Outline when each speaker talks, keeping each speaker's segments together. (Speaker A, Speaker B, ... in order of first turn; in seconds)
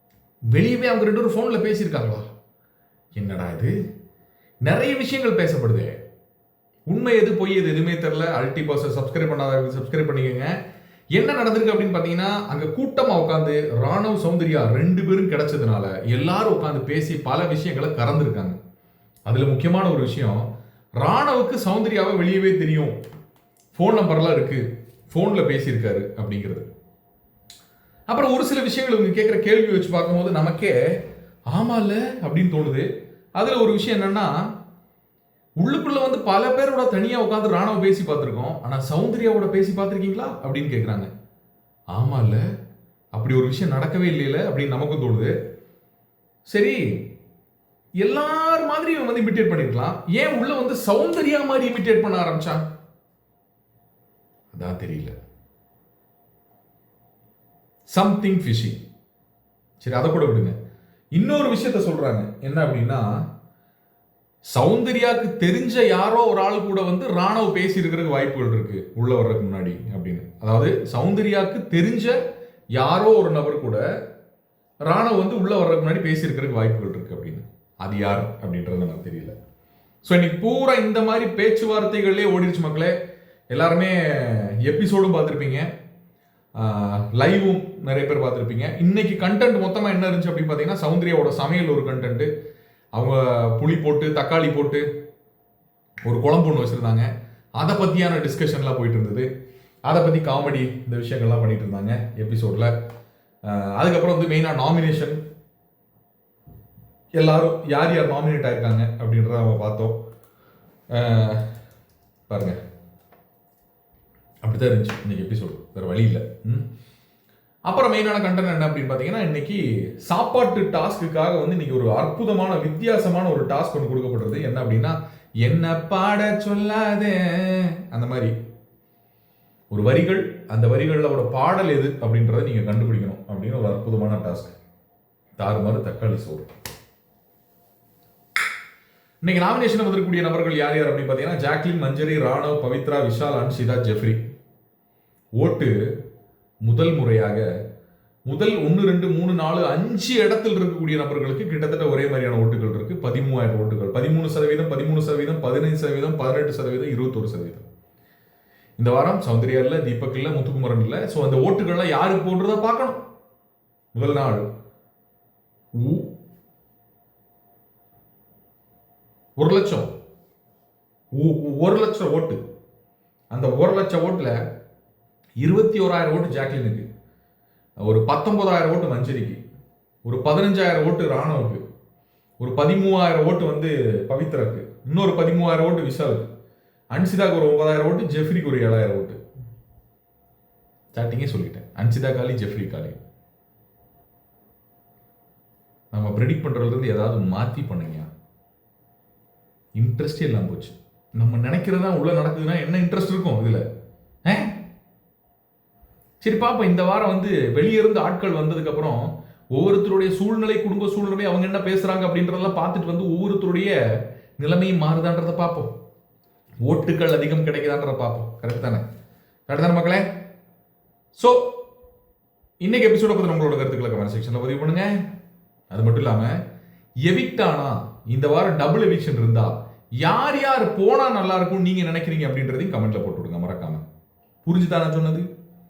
Speaker A: 0.5-2.3, 3.1-3.7, 4.6-6.0, 6.9-10.6, 11.1-18.6, 19.2-23.0, 23.7-26.6, 28.1-31.0, 31.5-34.5, 35.6-41.1, 41.9-42.4, 43.1-45.3, 46.5-47.0, 48.0-52.6, 54.5-55.1, 57.9-58.8, 59.8-60.5, 61.1-63.0, 64.5-72.2, 72.7-73.8, 74.8-79.3, 80.0-82.9, 83.5-85.7, 86.5-92.3, 92.9-94.8, 96.0-99.3, 99.9-102.7, 103.4-105.2, 107.2-110.0, 110.9-111.4, 112.3-112.6, 114.4-116.7, 117.7-128.3, 129.7-134.6, 135.4-136.5, 139.2-144.2, 145.4-145.8, 146.6-147.4, 148.3-157.7, 158.8-163.0, 163.9-164.4, 165.7-166.1, 169.4-169.9, 171.1-172.4, 173.3-174.3, 175.4-176.8, 177.8-179.4, 180.0-181.6, 182.4-186.2, 186.9-189.2, 190.9-193.0, 195.9-198.1, 199.8-203.6, 204.2-204.6, 206.2-213.7, 214.4-215.7, 216.6-218.8, 219.5-220.1, 221.2-221.5, 222.6-225.0, 225.7-226.3, 227.0-233.8, 234.4-235.3